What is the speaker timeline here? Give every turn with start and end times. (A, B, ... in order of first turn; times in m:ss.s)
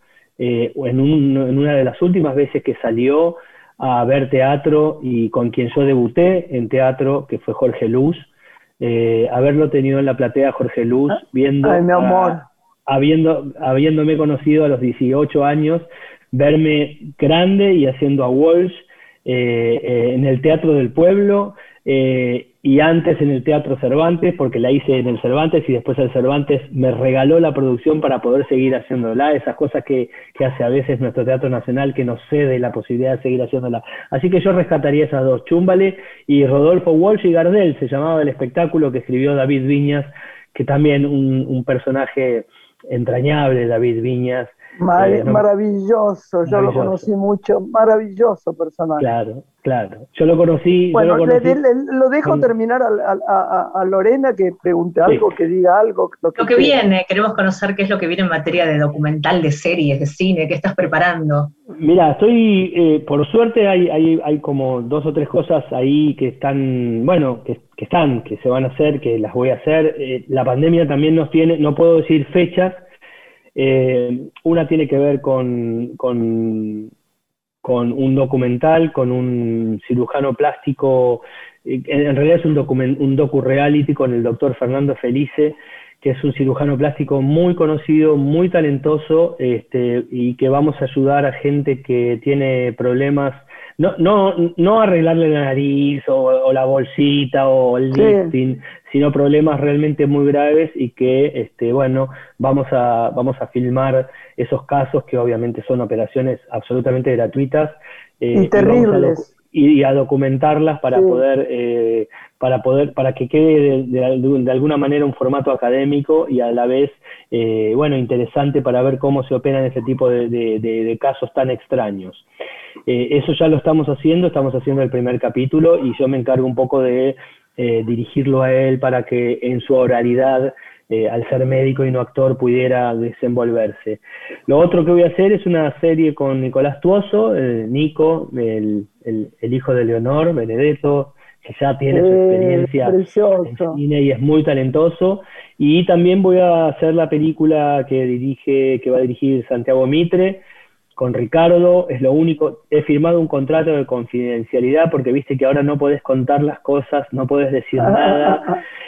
0:00.4-0:45.4 A
0:11.6-0:12.4 B
0:44.8-0:49.0 B
0:46.5-0:47.1 A
0:49.0-0:51.6 A
0:50.9-0:56.7 B
0:55.0-0:55.3 A
0:56.4-1:01.5 C
1:01.7-1:12.8 A
1:13.5-1:16.9 A
1:17.6-2:02.2 A
1:37.9-1:38.3 B
1:48.3-1:49.3 B
1:50.9-1:51.2 B
2:02.9-2:30.4 A
2:21.9-2:23.8 B
2:31.0-2:38.5 A
2:37.8-2:38.6 B